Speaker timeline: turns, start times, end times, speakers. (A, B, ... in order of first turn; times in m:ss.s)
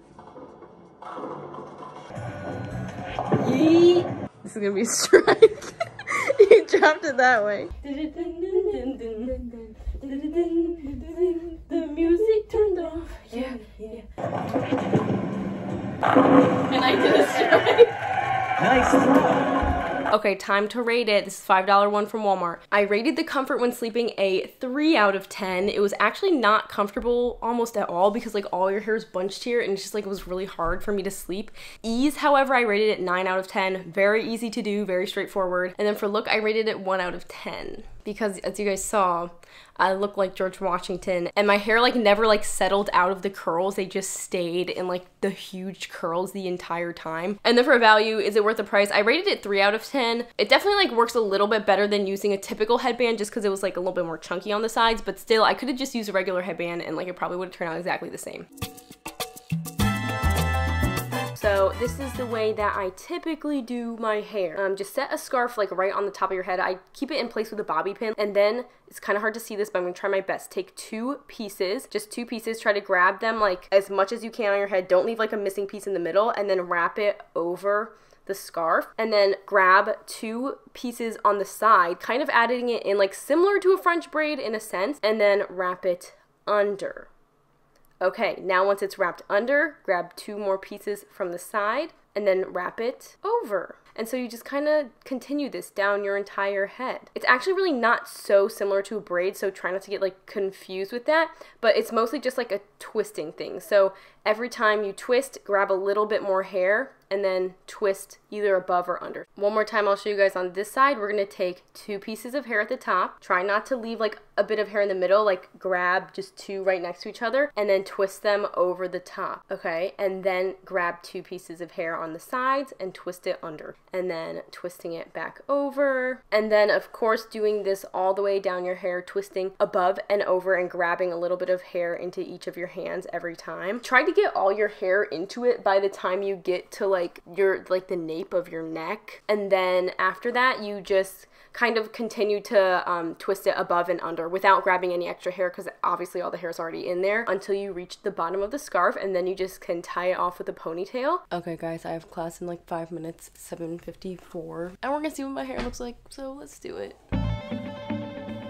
0:03.4-0:14.0 A
0:16.7-0:17.9 A
0:20.1-0:58.5 A
1:01.3-1:27.1 A
1:28.0-2:37.0 A